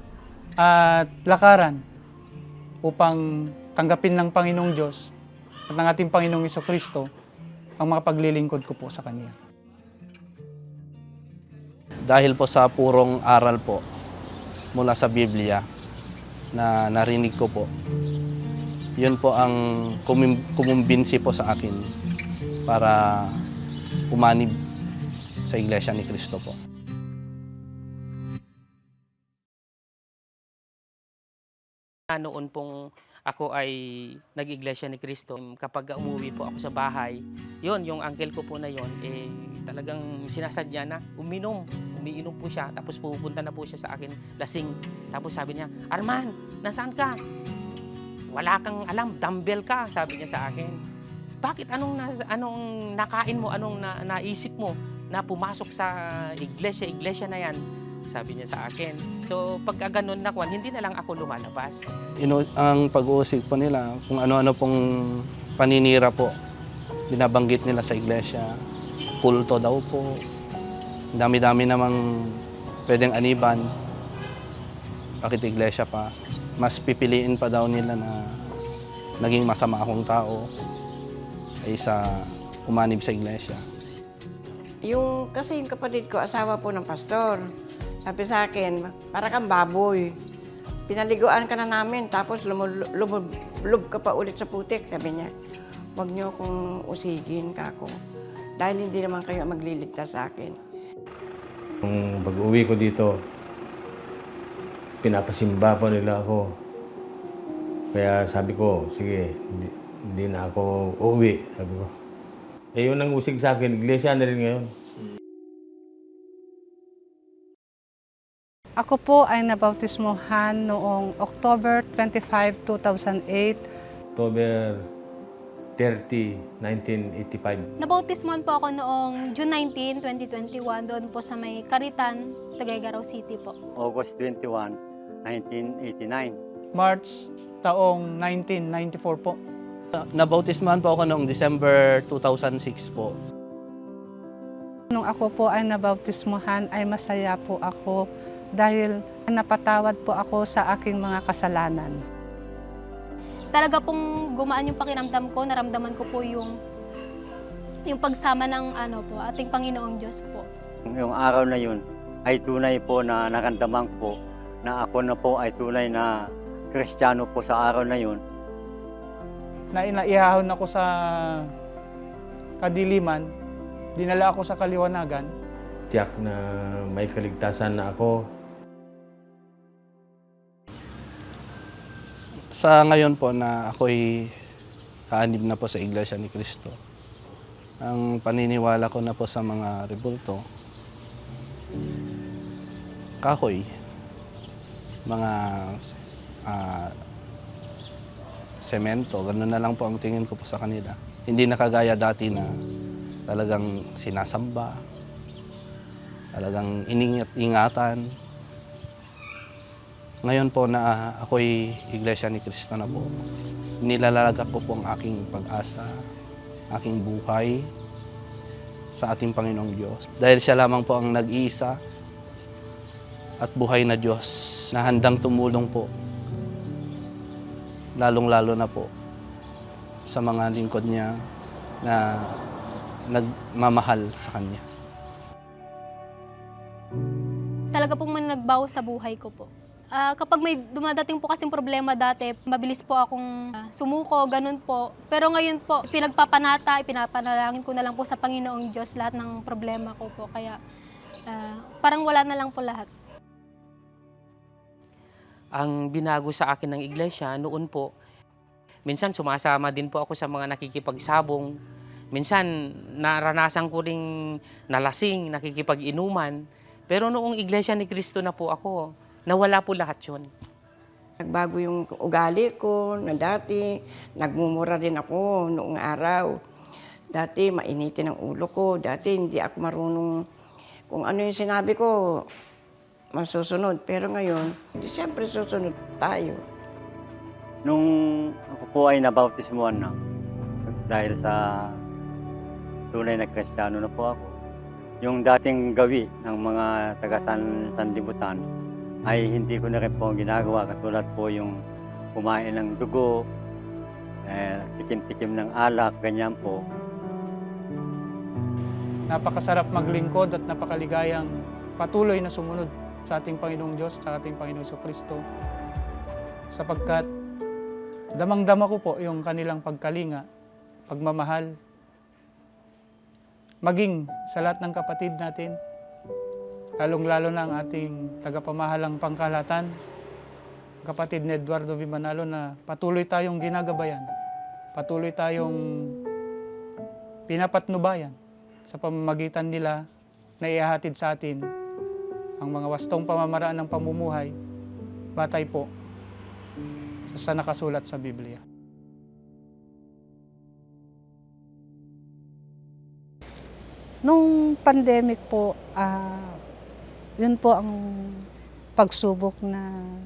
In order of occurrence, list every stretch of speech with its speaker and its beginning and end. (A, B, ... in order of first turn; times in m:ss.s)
0:00.6-0:01.8 A
0:02.8-0:05.1 A
0:05.7-0:07.1 A
0:07.8-0:09.4 A
0:12.0-0:13.8 B
0:14.8-0:15.6 B
0:16.5-0:17.7 B
0:19.0-0:21.9 B
0:22.7-0:23.4 B
0:24.1-0:24.5 B
0:25.5-0:26.6 B
0:32.1-0:32.8 C
0:33.3-0:47.2 C
0:48.3-0:50.8 C
0:51.4-1:01.9 C
1:02.2-1:06.3 B
1:07.1-1:08.5 B
1:09.2-1:10.2 B
1:11.1-1:13.6 B
1:15.2-1:18.3 B
1:19.2-1:20.5 B
1:21.6-1:23.6 B
1:24.8-1:27.4 D
1:28.1-1:30.1 D
1:30.9-1:35.3 D
1:36.0-1:37.9 D
1:38.6-1:40.6 D
1:41.8-1:43.2 E
1:45.0-1:46.5 E
1:47.9-1:51.9 E
1:52.8-1:54.7 E
1:58.8-2:03.6 F
2:04.1-2:04.9 E
2:05.8-2:07.7 E
2:07.8-2:13.5 G
2:13.8-2:16.4 H
2:16.8-2:19.4 A
2:20.0-2:23.2 B
2:24.9-2:28.0 F
2:28.6-2:32.0 F
2:33.5-2:36.5 G
2:37.9-2:40.5 G
2:41.0-2:46.2 H
2:46.7-2:48.2 H
2:49.7-2:51.5 A
2:52.6-2:53.3 A
2:54.0-2:55.3 A
2:55.9-2:58.2 E
3:02.5-3:04.3 B
3:05.1-3:06.8 B
3:07.8-3:10.4 B
3:13.2-3:13.7 B
3:15.1-3:15.9 B
3:16.5-3:16.9 B
3:18.6-3:22.5 B
3:23.3-3:24.8 B
3:26.4-3:28.0 B
3:30.2-3:33.1 B
3:33.8-3:35.9 B
3:36.7-3:37.7 B
3:39.0-3:41.8 B
3:43.4-3:45.9 B
3:48.0-3:48.9 B
3:50.1-3:51.1 B
3:51.8-3:52.4 B
3:53.1-3:54.6 B
3:57.7-4:10.6 G
4:11.3-4:12.9 G
4:15.6-4:17.9 C
4:18.9-4:21.5 C
4:22.1-4:24.0 C
4:24.7-4:30.3 C
4:31.2-4:33.6 D
4:34.2-4:36.4 D
4:37.1-4:40.1 D
4:40.9-4:42.2 D
4:43.2-4:46.4 D
4:47.6-4:49.9 H
4:50.9-4:51.7 H
4:52.9-4:54.3 H
4:55.0-4:58.4 H
4:59.1-5:01.6 H
5:02.2-5:03.2 H
5:04.3-5:06.6 H
5:09.1-5:15.2 A
5:16.5-5:17.1 A
5:18.2-5:20.3 A
5:20.9-5:21.6 A
5:23.6-5:25.6 A
5:26.8-5:29.8 A
5:30.8-5:34.1 A
5:34.8-5:35.9 A
5:37.3-5:38.2 A
5:38.7-5:39.8 A
5:40.4-5:41.5 A
5:42.4-5:44.4 A
5:45.2-5:45.7 A
5:47.1-5:48.4 A
5:54.0-5:56.4 F
5:57.2-5:58.2 F
5:58.8-5:59.7 F